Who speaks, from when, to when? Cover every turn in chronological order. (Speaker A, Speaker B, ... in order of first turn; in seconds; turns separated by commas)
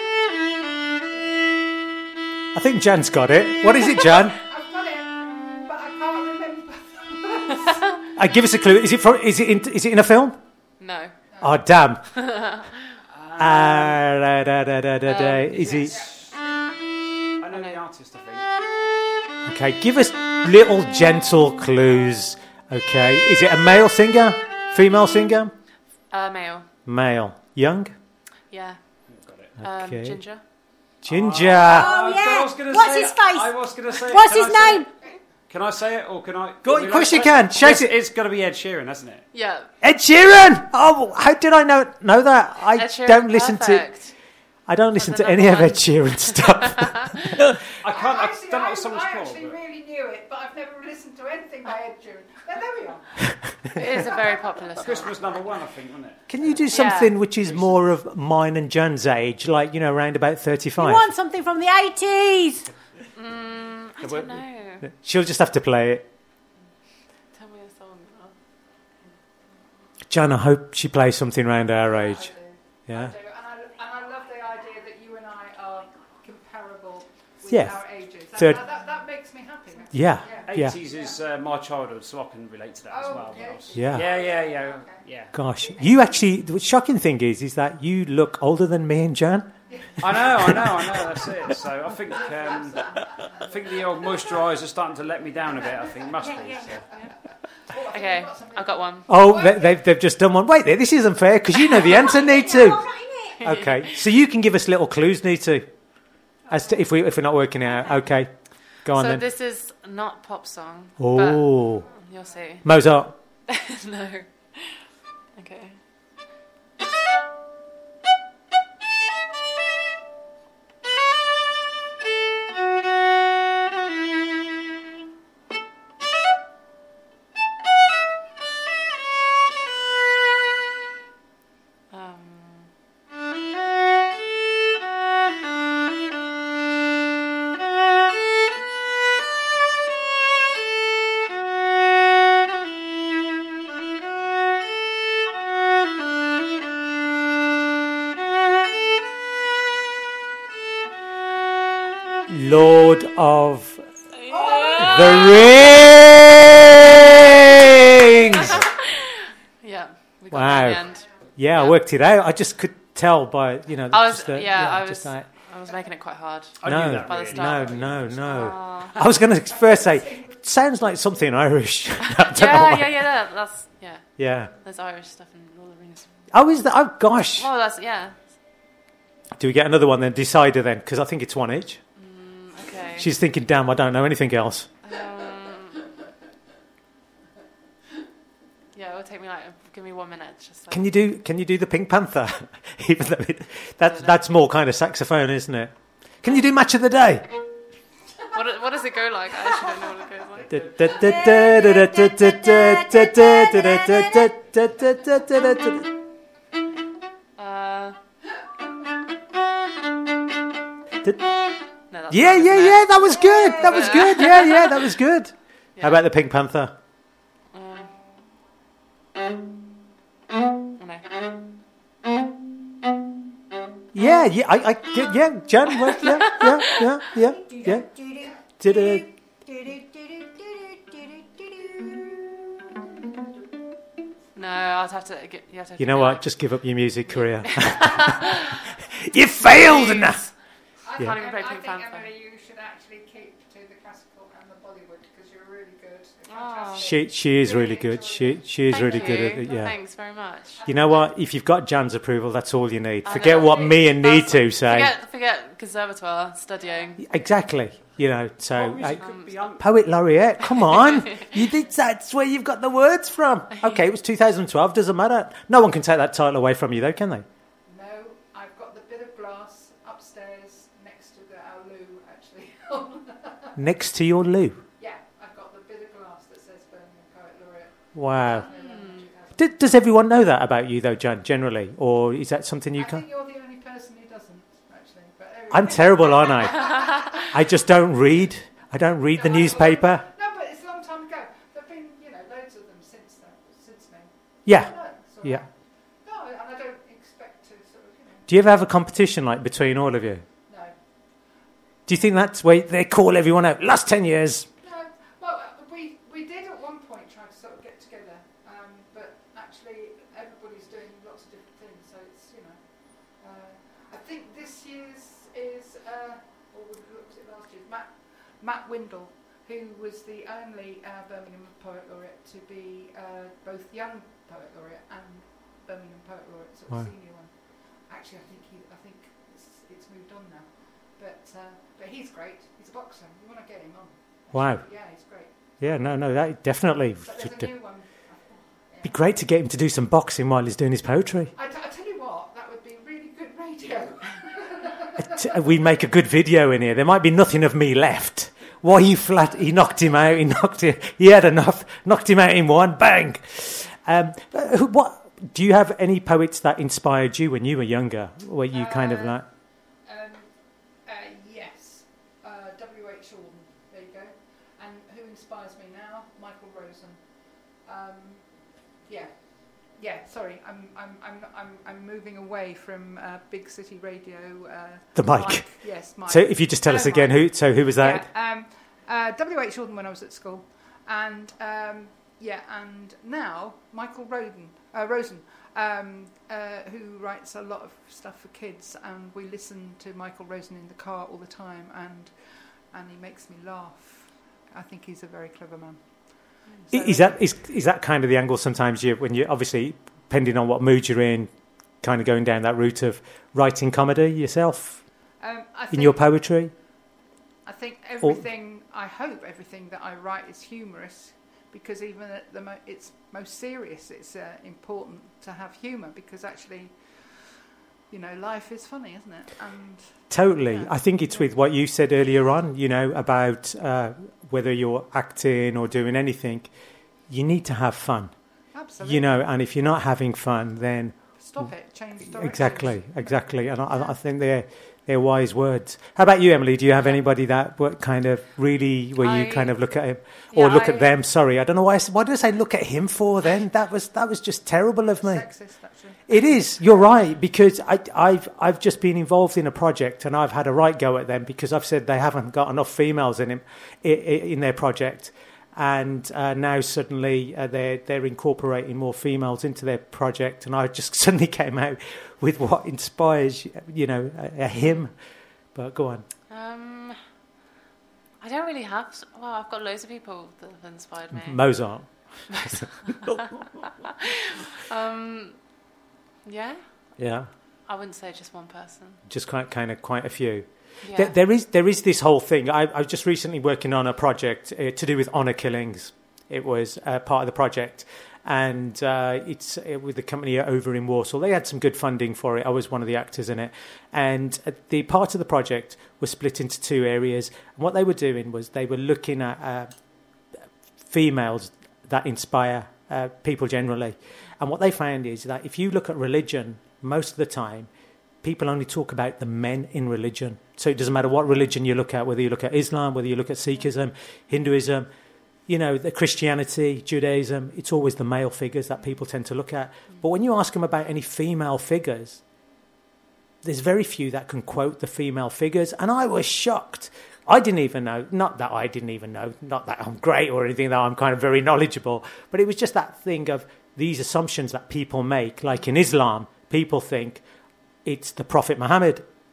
Speaker A: 2.5-4.4, Speaker B: 4.4-7.8, Speaker A: 8.2-10.4, Speaker C: 10.8-11.2, Speaker A: 11.4-12.0, Speaker C: 12.2-12.8, Speaker D: 13.1-14.0, Speaker A: 13.4-16.0, Speaker C: 15.0-15.8, Speaker B: 15.6-16.3, Speaker D: 17.4-18.5, Speaker C: 17.5-17.8, Speaker A: 19.5-25.5, Speaker C: 26.1-26.7, Speaker A: 26.8-27.9, Speaker C: 28.5-30.4, Speaker D: 29.0-29.6, Speaker A: 29.6-30.2, Speaker A: 31.0-31.9, Speaker D: 31.1-35.0, Speaker E: 31.6-34.9, Speaker D: 35.5-39.3, Speaker A: 36.6-38.0, Speaker C: 39.3-39.7, Speaker A: 39.8-43.9, Speaker C: 42.7-44.1, Speaker A: 44.7-47.0, Speaker C: 45.0-47.4, Speaker D: 47.8-49.6, Speaker B: 47.9-55.0, Speaker C: 53.7-55.3, Speaker D: 54.8-56.8, Speaker A: 56.3-61.0, Speaker C: 56.7-57.2, Speaker D: 57.3-57.8, Speaker E: 60.8-62.7, Speaker C: 63.1-64.8, Speaker A: 64.0-66.0, Speaker C: 67.3-68.4, Speaker A: 70.1-73.1, Speaker B: 71.9-81.2, Speaker A: 77.5-78.6, Speaker A: 79.9-80.8, Speaker D: 80.4-85.3, Speaker B: 82.9-86.0, Speaker A: 83.7-84.1, Speaker A: 85.3-90.9, Speaker B: 89.7-90.5, Speaker D: 90.0-96.8, Speaker B: 92.1-94.2, Speaker B: 96.1-99.7, Speaker E: 96.2-96.8, Speaker C: 97.9-99.1, Speaker A: 99.1-109.2, Speaker E: 102.1-103.4, Speaker C: 103.4-104.0, Speaker C: 107.9-112.7, Speaker A: 111.0-111.9, Speaker A: 112.6-113.2, Speaker C: 113.5-114.8, Speaker C: 115.3-115.8, Speaker C: 131.9-132.7, Speaker A: 152.3-153.9, Speaker C: 154.1-155.6, Speaker A: 154.8-158.6, Speaker C: 158.3-158.8, Speaker C: 159.6-161.8, Speaker A: 160.3-165.3, Speaker C: 163.9-168.9, Speaker D: 166.6-168.6, Speaker A: 166.6-173.1, Speaker B: 169.0-170.4, Speaker C: 172.1-176.2, Speaker A: 174.2-174.5, Speaker A: 176.3-177.5, Speaker C: 177.3-178.4, Speaker A: 179.4-181.8, Speaker C: 181.9-183.1, Speaker A: 183.0-184.7, Speaker C: 184.8-185.9, Speaker C: 188.7-190.9, Speaker A: 190.7-197.3, Speaker C: 193.8-194.2, Speaker C: 198.3-200.6, Speaker A: 200.5-205.9, Speaker E: 200.8-204.3, Speaker C: 207.4-208.0, Speaker C: 211.9-212.9, Speaker A: 211.9-216.7, Speaker E: 213.1-213.9, Speaker C: 213.6-214.4, Speaker C: 215.8-216.0, Speaker C: 217.5-217.9, Speaker C: 220.8-221.1, Speaker A: 223.9-227.9, Speaker E: 227.2-232.2, Speaker A: 228.6-229.1, Speaker C: 234.3-236.2, Speaker A: 235.8-237.9, Speaker C: 237.1-238.6, Speaker A: 239.1-240.2, Speaker C: 239.4-240.5, Speaker B: 240.8-251.1, Speaker C: 241.0-242.1, Speaker C: 246.3-247.0, Speaker A: 246.8-249.8, Speaker C: 248.7-250.6, Speaker A: 250.6-254.9, Speaker C: 253.0-257.0, Speaker B: 256.6-256.9, Speaker A: 257.0-267.2, Speaker D: 258.5-259.8, Speaker C: 259.0-259.5, Speaker C: 260.5-261.4, Speaker C: 263.5-263.8, Speaker B: 267.6-273.5, Speaker A: 273.6-274.6, Speaker B: 274.8-279.4, Speaker A: 277.9-278.5, Speaker C: 278.3-279.1, Speaker A: 279.4-283.0, Speaker B: 282.8-286.8, Speaker A: 285.5-290.0, Speaker B: 289.1-298.2, Speaker A: 294.4-295.4, Speaker A: 298.3-300.2, Speaker B: 300.5-301.3, Speaker A: 301.9-304.5, Speaker B: 304.6-335.6, Speaker A: 334.3-337.5, Speaker B: 337.0-338.9, Speaker A: 338.8-341.3, Speaker B: 341.3-344.9, Speaker A: 344.9-359.2, Speaker B: 358.5-397.2, Speaker A: 374.9-378.1, Speaker A: 396.7-405.1, Speaker B: 405.2-406.7, Speaker A: 405.7-406.5, Speaker B: 407.4-421.3, Speaker A: 420.1-465.0, Speaker B: 428.5-429.1, Speaker B: 431.2-433.9, Speaker C: 439.0-439.6, Speaker C: 440.3-440.9, Speaker B: 445.0-446.9, Speaker A: 465.5-466.1, Speaker C: 466.3-467.0, Speaker C: 468.2-472.7, Speaker A: 471.1-473.2, Speaker C: 474.7-475.7, Speaker C: 476.2-476.9, Speaker A: 477.0-477.3, Speaker C: 477.6-479.0, Speaker A: 479.1-499.8, Speaker C: 480.8-481.1, Speaker A: 500.8-507.7, Speaker A: 508.2-514.9, Speaker A: 515.5-522.2, Speaker A: 523.4-537.2, Speaker A: 537.8-539.1